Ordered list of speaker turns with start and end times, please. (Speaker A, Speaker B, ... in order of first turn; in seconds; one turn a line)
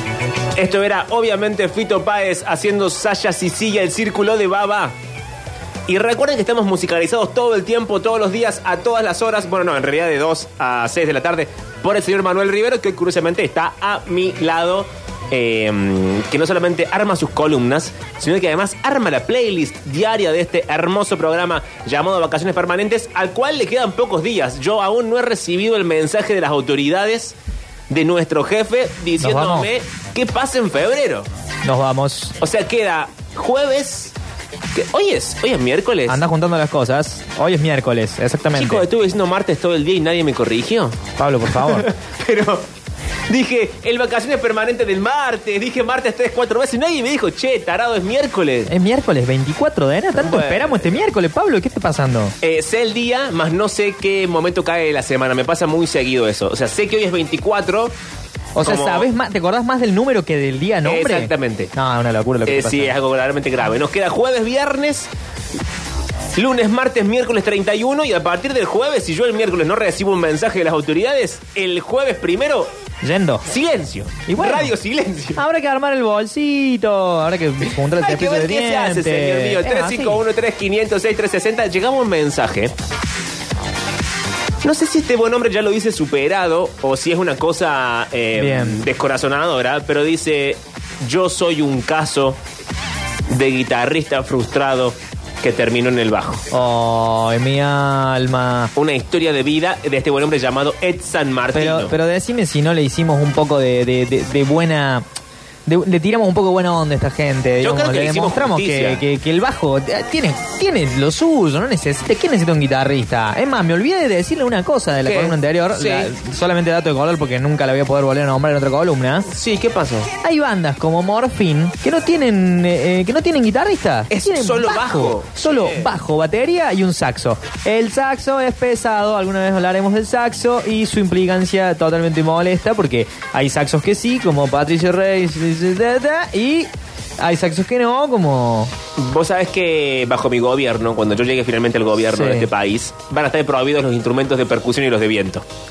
Speaker A: 0.6-4.9
Speaker A: 5.9-27.3
Speaker A: 27.9-31.3
Speaker B: 29.2-29.7
Speaker B: 31.6-32.4
Speaker A: 32.4-34.1
Speaker A: 34.7-36.2
Speaker B: 36.1-38.9
Speaker A: 38.5-41.0
Speaker B: 41.2-41.9
Speaker A: 41.6-42.6
Speaker A: 43.3-48.7
Speaker B: 48.7-52.3
Speaker A: 50.2-50.8
Speaker A: 52.4-57.9
Speaker B: 58.5-63.0
Speaker A: 58.6-59.1
Speaker A: 60.8-61.7
Speaker A: 62.5-65.1
Speaker A: 66.3-72.7
Speaker B: 73.0-73.5
Speaker A: 73.5-75.4
Speaker B: 74.3-74.7
Speaker B: 75.3-80.2
Speaker A: 77.9-82.7
Speaker A: 84.6-92.4
Speaker B: 88.4-88.8
Speaker A: 93.3-96.4
Speaker B: 96.5-98.7
Speaker A: 98.8-101.9
Speaker B: 101.5-105.0
Speaker B: 105.7-119.3
Speaker A: 107.6-109.0
Speaker A: 115.0-116.1
Speaker A: 119.2-120.1
Speaker B: 120.2-138.7
Speaker A: 124.1-125.9
Speaker A: 139.0-145.4
Speaker B: 142.1-142.5